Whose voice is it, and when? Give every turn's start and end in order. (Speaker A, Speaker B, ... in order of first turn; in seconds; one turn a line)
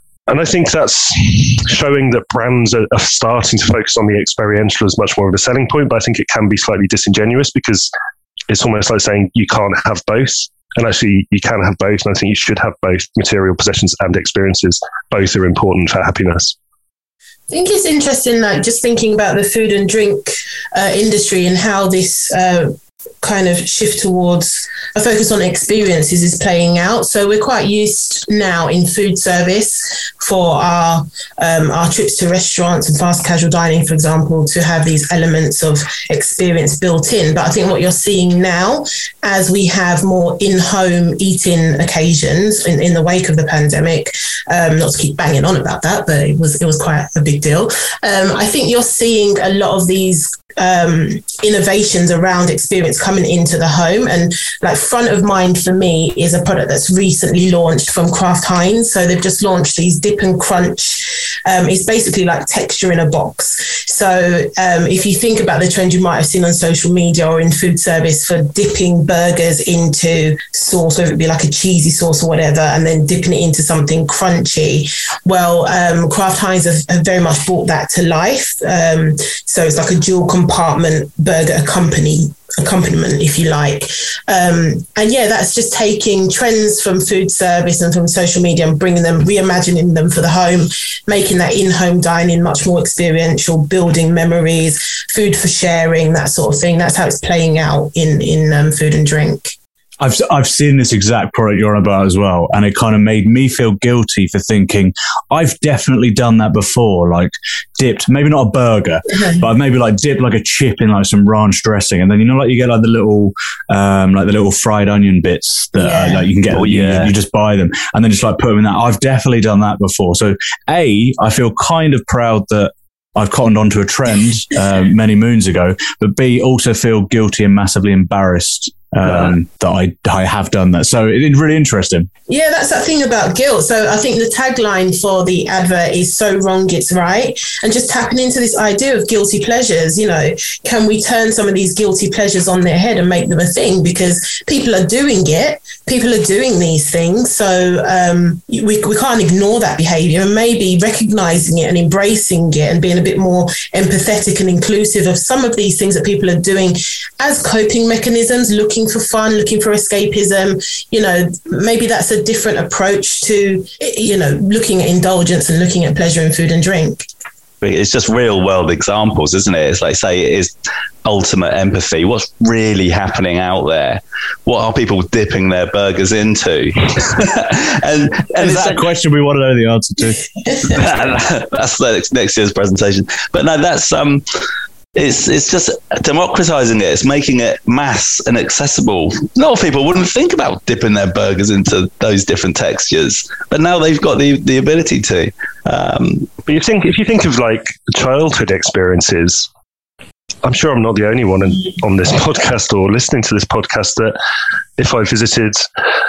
Speaker A: 0.3-7.9
Speaker A: 8.5-16.6
Speaker B: 17.5-99.5
Speaker C: 100.0-132.1
Speaker B: 115.8-116.3
Speaker D: 116.5-117.1
Speaker B: 132.3-167.1
Speaker D: 167.6-170.5
Speaker D: 171.1-178.8
Speaker C: 178.4-180.2
Speaker D: 180.7-184.2
Speaker D: 184.9-196.3
Speaker A: 196.5-199.5
Speaker A: 200.4-204.1
Speaker A: 204.8-205.7